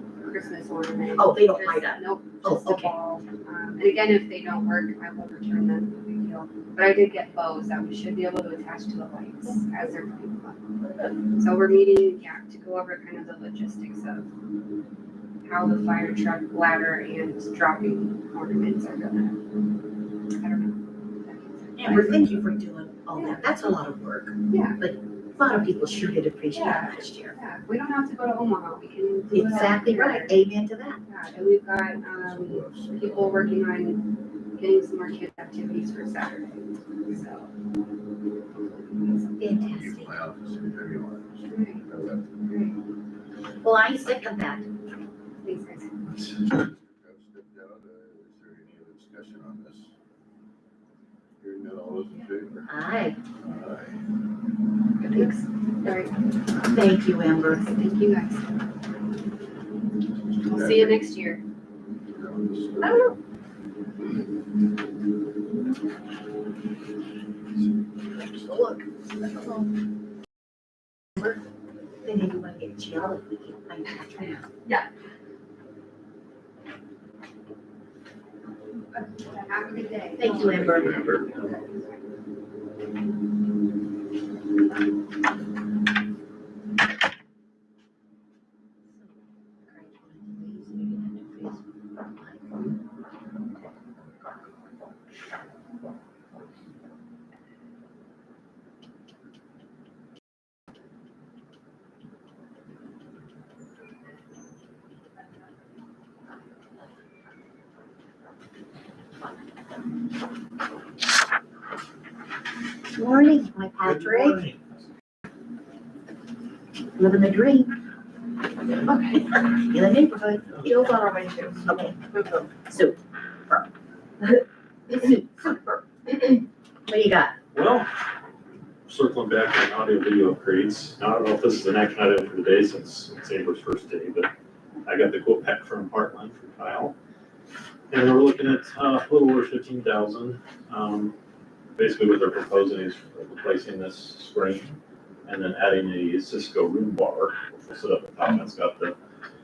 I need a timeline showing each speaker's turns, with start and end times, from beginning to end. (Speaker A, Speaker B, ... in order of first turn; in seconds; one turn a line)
Speaker A: 0.2-10.6
Speaker B: 1.1-3.0
Speaker C: 10.8-11.2
Speaker A: 11.3-14.3
Speaker A: 15.4-19.4
Speaker A: 20.3-22.3
Speaker B: 21.8-27.4
Speaker A: 23.1-23.5
Speaker A: 24.5-24.9
Speaker A: 25.4-30.4
Speaker B: 29.3-31.0
Speaker A: 31.1-37.5
Speaker D: 31.8-33.6
Speaker A: 38.7-39.6
Speaker B: 39.4-40.1
Speaker D: 39.6-42.5
Speaker A: 41.5-41.9
Speaker A: 42.5-42.8
Speaker B: 43.6-44.7
Speaker A: 45.4-46.0
Speaker D: 46.1-49.9
Speaker D: 51.4-52.7
Speaker B: 52.7-53.2
Speaker D: 53.4-54.0
Speaker C: 55.0-55.3
Speaker A: 55.0-56.1
Speaker B: 56.6-57.6
Speaker A: 57.4-58.6
Speaker D: 60.1-61.1
Speaker A: 60.5-61.4
Speaker D: 62.1-63.1
Speaker C: 62.8-63.2
Speaker D: 67.5-68.8
Speaker C: 68.5-68.8
Speaker B: 72.0-74.5
Speaker A: 78.9-82.0
Speaker B: 80.2-81.1
Speaker D: 80.4-81.3
Speaker B: 88.9-92.6
Speaker B: 112.9-114.4
Speaker E: 113.8-114.8
Speaker B: 117.0-117.7
Speaker C: 118.8-119.3
Speaker B: 119.3-120.7
Speaker C: 120.6-122.5
Speaker B: 121.6-122.0
Speaker B: 122.7-123.7
Speaker B: 124.9-125.5
Speaker B: 126.1-127.3
Speaker E: 127.5-127.9
Speaker E: 128.9-134.3
Speaker E: 134.8-136.9
Speaker E: 137.9-141.1
Speaker E: 141.8-148.9